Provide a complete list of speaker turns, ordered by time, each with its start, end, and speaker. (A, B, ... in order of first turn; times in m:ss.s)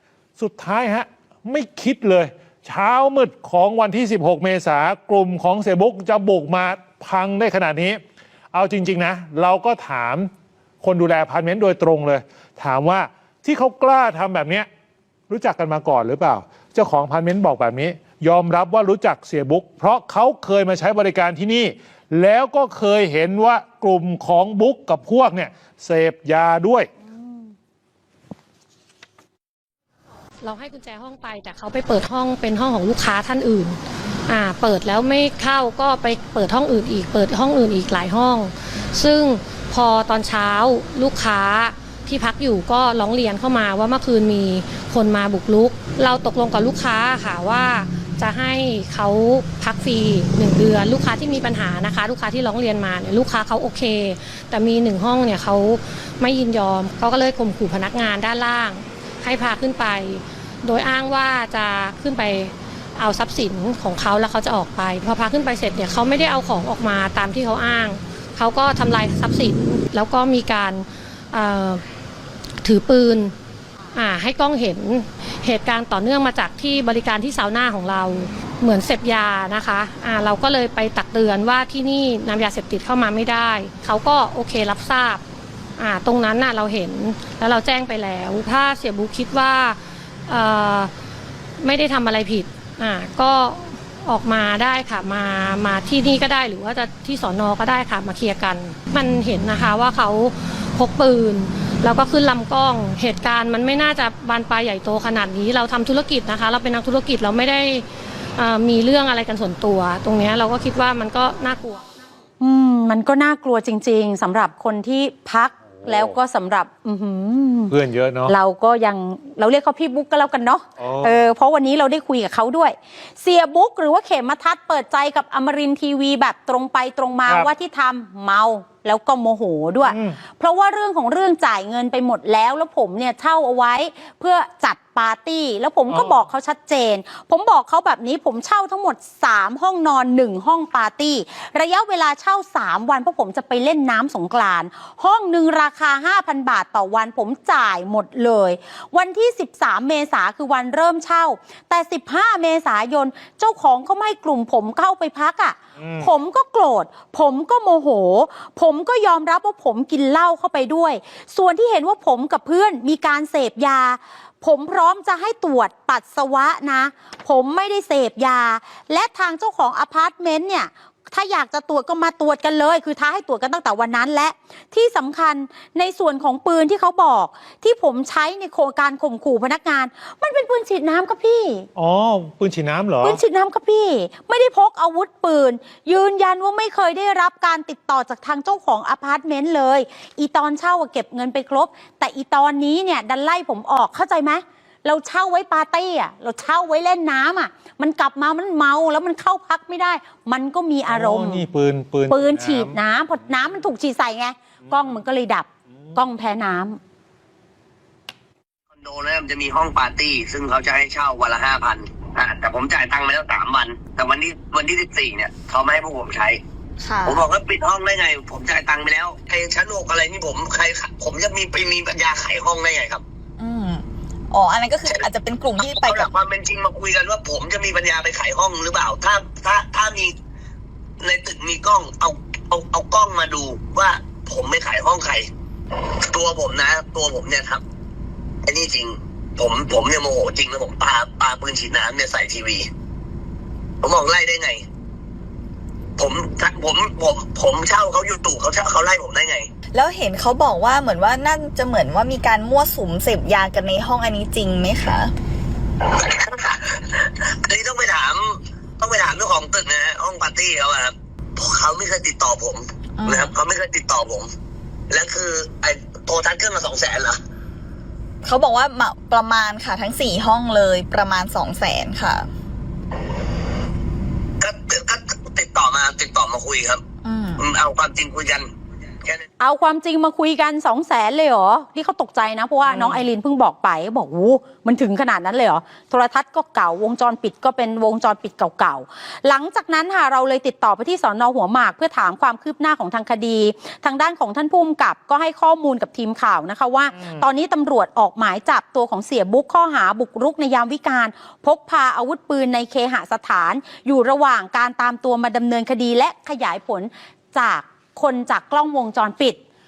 0:00.4-0:08.0 A
0:08.5-0:10.3 A
0:10.8-0:14.7 A
0:15.3-0:26.9 A
0:30.4-1:11.8 B
1:12.6-1:13.4 B
1:13.9-1:25.2 B
1:25.8-1:30.9 B
1:31.6-1:51.8 B
1:52.4-1:57.7 C
1:55.8-1:56.1 A
1:57.7-1:58.3 A
1:58.3-3:01.7 C
2:00.8-2:01.2 A
2:09.9-2:10.2 A
2:35.8-2:36.1 A
3:01.8-3:03.2 A
3:03.0-3:21.4 C
3:20.9-3:22.8 A
3:22.1-3:26.8 C
3:28.7-3:36.4 D
3:36.8-3:37.2 E
3:37.1-3:43.0 D
3:43.4-3:46.1 E
3:45.6-3:50.2 D
3:51.0-3:55.3 D
3:56.0-3:57.6 D
3:58.4-4:02.7 D
4:03.8-4:04.6 D
4:06.0-4:09.5 D
4:09.7-4:15.1 E
4:15.9-4:24.3 D
4:23.0-4:23.3 E
4:24.9-4:27.2 D
4:28.2-4:32.3 E
4:34.4-4:36.8 D
4:37.0-4:37.4 E
4:37.4-4:38.5 D
4:39.4-5:09.4 C